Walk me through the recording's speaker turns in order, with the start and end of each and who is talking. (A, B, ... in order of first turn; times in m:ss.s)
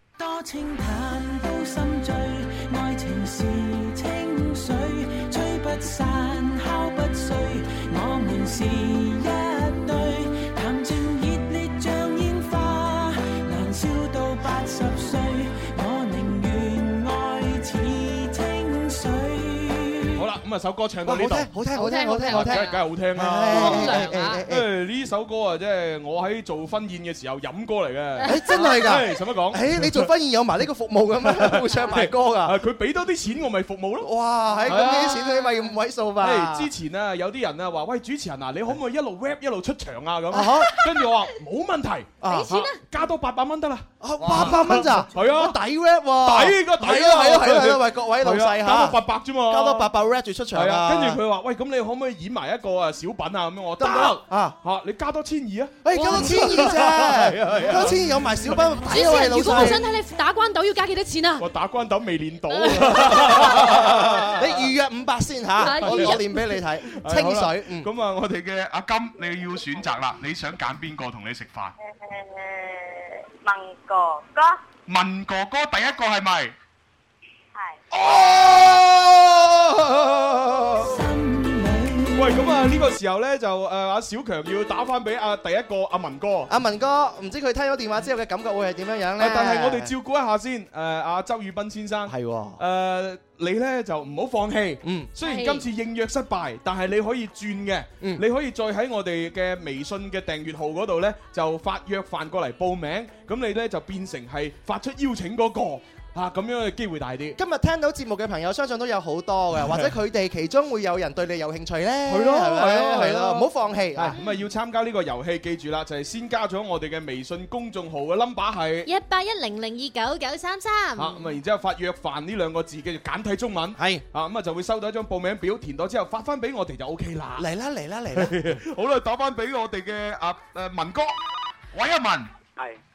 0:00.2-0:20.0 A
0:20.2-0:21.5 B
0:21.0-0:24.7 C
0:21.7-0:22.8 D
0:22.2-0:30.1 B
0:23.5-0:24.4 D
0:28.2-0:28.9 D
0:28.2-0:32.6 C
0:31.2-0:34.1 B
0:34.0-0:36.7 C
0:34.6-0:35.4 B
0:36.2-0:45.6 B
0:40.3-0:40.7 C
0:42.2-0:42.5 C
0:42.3-0:42.8 D
0:44.0-0:49.0 C
0:46.2-0:49.9 B
0:49.5-0:51.2 C
0:50.5-0:58.6 B
0:53.8-0:54.5 C
0:55.8-0:59.8 C
0:55.9-0:56.3 D
0:58.8-1:01.5 D
0:59.3-0:59.8 B
1:01.4-1:04.7 B
1:02.5-1:03.4 D
1:03.0-1:07.9 C
1:05.6-1:06.4 D
1:05.6-1:06.2 B
1:06.9-1:11.7 B
1:11.8-1:14.6 E
1:14.9-1:16.5 B
1:17.5-1:17.8 E
1:17.9-1:20.9 B
1:20.8-1:22.5 A
1:22.1-1:26.5 B
1:26.5-1:29.9 C
1:29.2-1:47.4 B
1:32.0-1:32.6 C
1:34.8-1:35.1 C
1:35.2-1:35.6 D
1:47.4-1:54.2 C
1:49.6-1:49.9 B
1:52.0-1:58.9 B
1:58.8-2:01.3 D
2:01.0-2:07.5 B
2:07.4-2:08.5 C
2:08.2-2:11.2 B
2:11.7-2:12.3 B